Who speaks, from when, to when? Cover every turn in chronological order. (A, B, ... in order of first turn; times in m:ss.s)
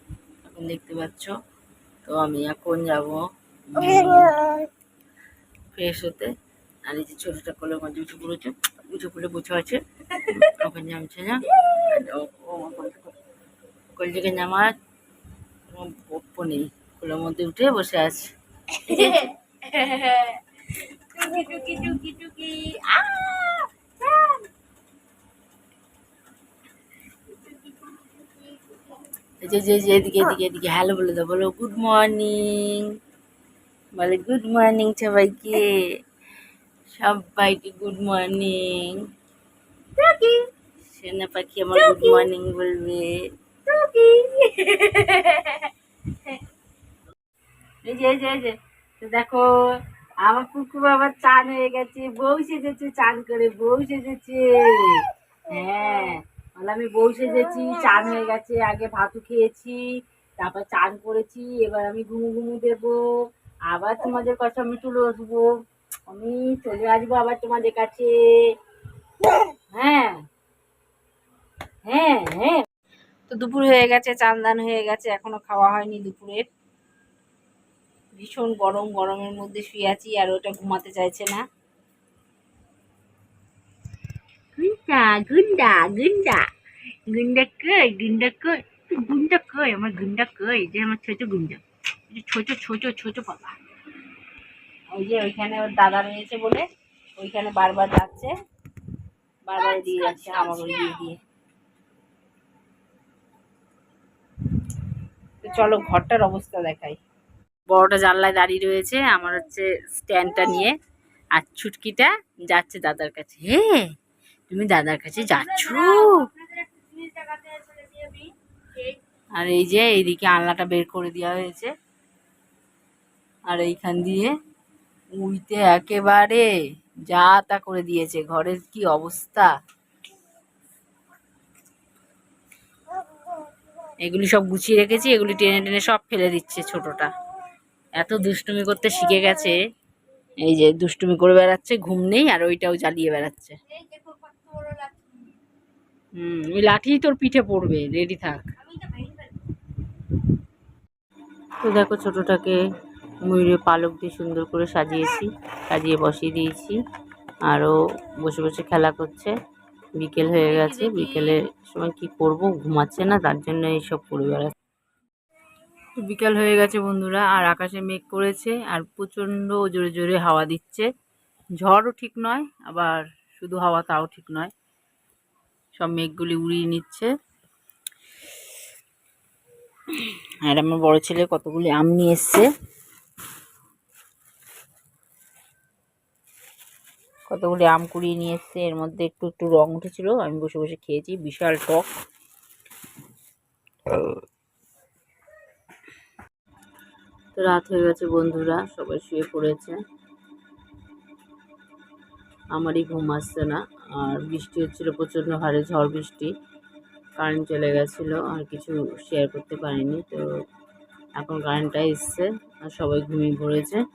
0:00.4-0:01.3 A
0:02.0-0:03.2 A
0:03.7-0:04.4 A
0:05.7-0:06.3 A
0:06.9-0:13.1 A
0:14.0-0:14.7 A
0:15.7-0:18.3 A
0:18.8-0:19.3 A
0:18.9-0:20.4 B
0:21.2-0:24.4 B
0:21.3-0:22.2 A
0:27.5-0:28.5 B
0:29.4-0:32.9 A
0:34.0-0:35.7 A
0:36.9-0:39.0 A
0:40.0-0:40.4 B
0:40.9-0:43.2 A
0:43.7-0:45.6 B
0:47.8-0:49.4 A
0:50.2-0:55.0 A
0:55.5-0:59.8 A
1:00.4-1:03.0 A
1:03.7-1:05.5 A
1:06.1-1:08.1 A
1:09.7-1:10.2 A
1:11.9-1:12.6 A
1:13.3-1:16.4 A
1:18.2-1:21.4 A
1:24.6-1:26.4 A
1:27.1-1:33.6 A
1:34.9-1:36.6 A
1:37.2-1:38.3 A
1:39.5-1:41.2 A
1:39.6-1:41.1 B
1:45.4-1:47.0 A
1:47.7-1:50.7 A
1:51.4-1:53.8 A
1:54.5-1:56.3 A
1:55.2-1:59.0 B
1:59.4-2:01.7 A
2:03.5-2:04.3 A
2:05.2-2:06.5 A
2:07.1-2:09.5 A
2:14.0-2:17.1 A
2:18.0-2:19.6 A
2:20.4-2:23.6 A
2:23.7-2:25.2 B
2:26.2-2:28.4 A
2:28.6-2:29.3 B
2:31.6-2:32.6 A
2:33.3-2:36.7 A
2:37.5-2:39.3 A
2:40.0-2:44.5 A
2:40.6-2:41.2 B
2:46.0-2:50.9 A
2:51.6-2:54.5 A
2:55.8-2:57.1 A
3:00.5-3:02.5 A
3:07.3-3:11.9 A
3:17.4-3:19.8 A
3:22.6-3:26.3 A
3:27.2-3:30.2 A
3:31.2-3:33.8 A